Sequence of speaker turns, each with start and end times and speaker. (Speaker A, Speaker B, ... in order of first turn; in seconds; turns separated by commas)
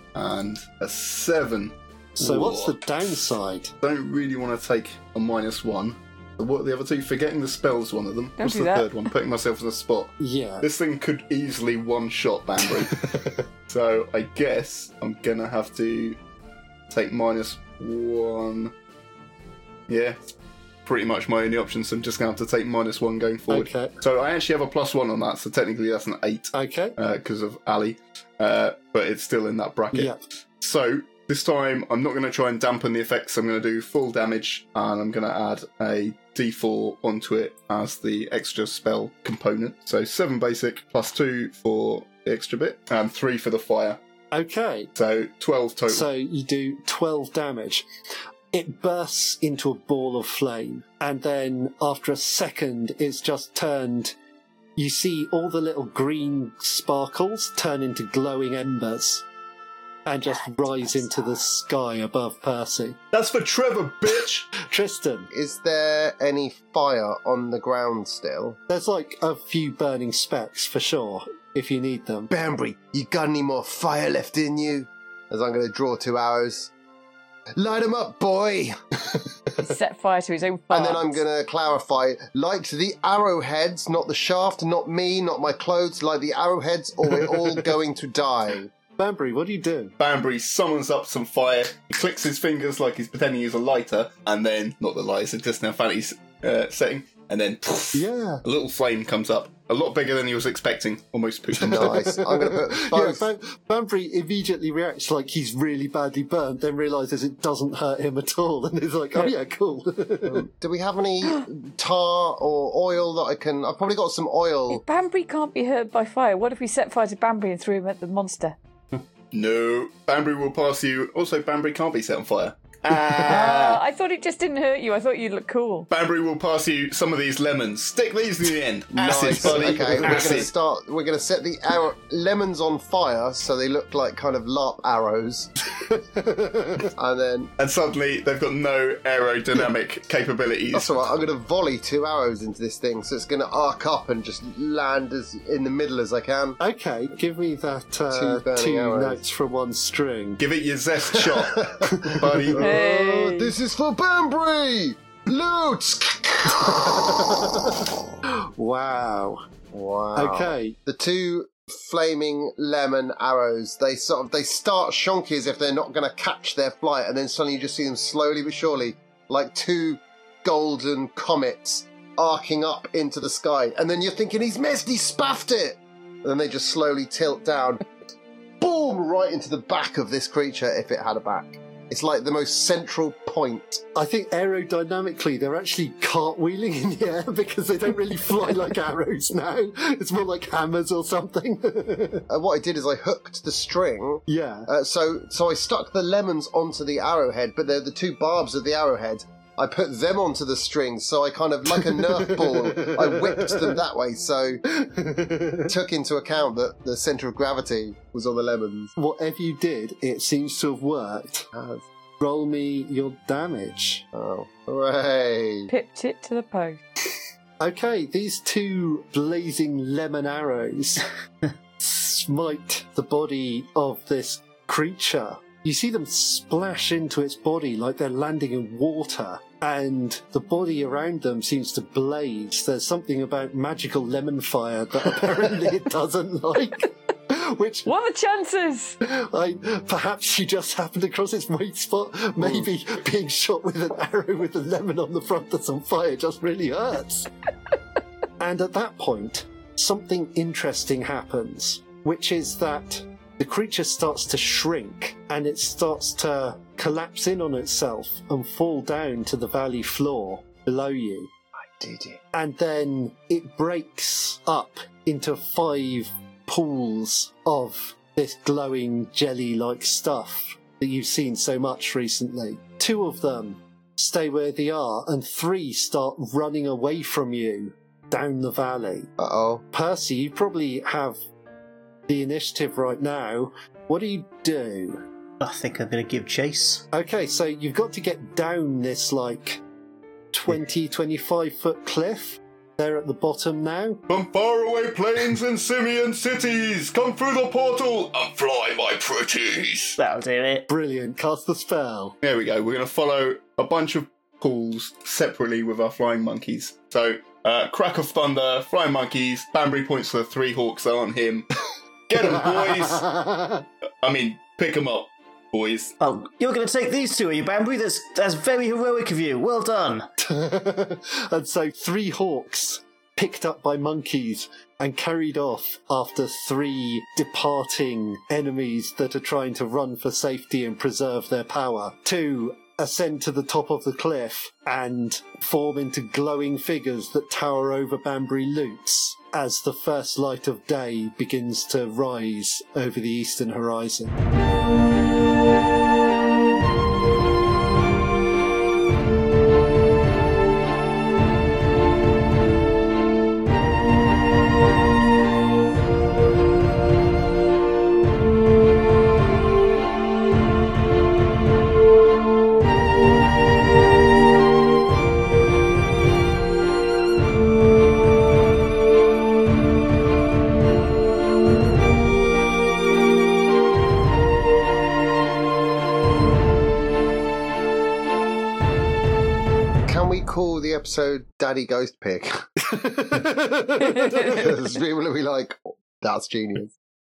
Speaker A: 0.1-2.8, Speaker B: 2.2-3.7, Speaker A: 3.8-16.2, Speaker C: 8.4-9.1, Speaker B: 10.2-10.7, Speaker A: 16.9-18.7, Speaker A: 19.9-20.2, Speaker A: 20.8-44.0, Speaker B: 23.5-23.9, Speaker B: 26.5-27.0, Speaker B: 29.9-30.2, Speaker B: 44.3-44.9, Speaker A: 44.9-46.1, Speaker B: 45.9-47.9, Speaker B: 48.5-54.1, Speaker B: 54.8-59.2, Speaker B: 60.0-63.0, Speaker C: 60.2-61.4, Speaker A: 63.1-64.5, Speaker B: 64.6-65.3, Speaker D: 65.3-68.6, Speaker B: 68.7-72.3, Speaker D: 72.3-76.7, Speaker D: 77.6-79.0, Speaker C: 79.6-81.2, Speaker D: 80.7-88.7, Speaker B: 89.0-89.9, Speaker A: 90.0-102.2, Speaker B: 97.9-98.4, Speaker B: 101.6-110.5, Speaker D: 101.7-103.2, Speaker D: 110.2-114.8, Speaker C: 114.7-118.6, Speaker A: 119.3-123.8, Speaker C: 123.2-125.9, Speaker A: 125.9-130.5, Speaker D: 128.9-135.5, Speaker B: 135.8-136.9, Speaker D: 136.9-137.5, Speaker A: 137.6-141.0, Speaker D: 140.7-146.6, Speaker B: 146.6-150.4, Speaker D: 148.1-149.2, Speaker A: 150.4-152.7, Speaker D: 151.2-151.8, Speaker B: 151.8-152.5, Speaker D: 152.4-157.5, Speaker C: 152.6-153.5, Speaker B: 156.5-157.7, Speaker B: 158.3-159.4, Speaker D: 159.7-177.9, Speaker B: 160.2-160.8, Speaker D: 178.6-183.8, Speaker B: 183.9-192.2, Speaker D: 192.3-204.6, Speaker B: 194.3-194.7, Speaker B: 202.2-203.8, Speaker B: 204.7-205.7, Speaker D: 205.7-208.9, Speaker B: 208.9-211.5, Speaker D: 211.5-211.8, Speaker B: 212.2-214.0, Speaker D: 214.1-215.7, Speaker C: 215.7-216.8, Speaker B: 217.6-221.0, Speaker B: 221.8-237.9, Speaker C: 237.8-239.0, Speaker B: 239.0-247.3, Speaker B: 248.4-261.3, Speaker D: 261.6-262.2, Speaker B: 262.3-279.1, Speaker D: 279.2-279.6, Speaker B: 279.7-281.2, Speaker B: 282.1-285.0, Speaker E: 285.4-286.9, Speaker B: 286.9-289.6, Speaker B: 290.3-294.0, Speaker A: 294.1-300.0, Speaker E: 300.0-300.7, Speaker B: 300.7-302.1, Speaker A: 302.2-311.5, Speaker A: 312.1-313.1, Speaker B: 312.4-313.6, Speaker A: 314.0-315.9, Speaker E: 316.0-320.1, Speaker B: 320.2-344.1, Speaker D: 379.9-382.5, Speaker B: 382.6-384.5, Speaker D: 384.2-386.7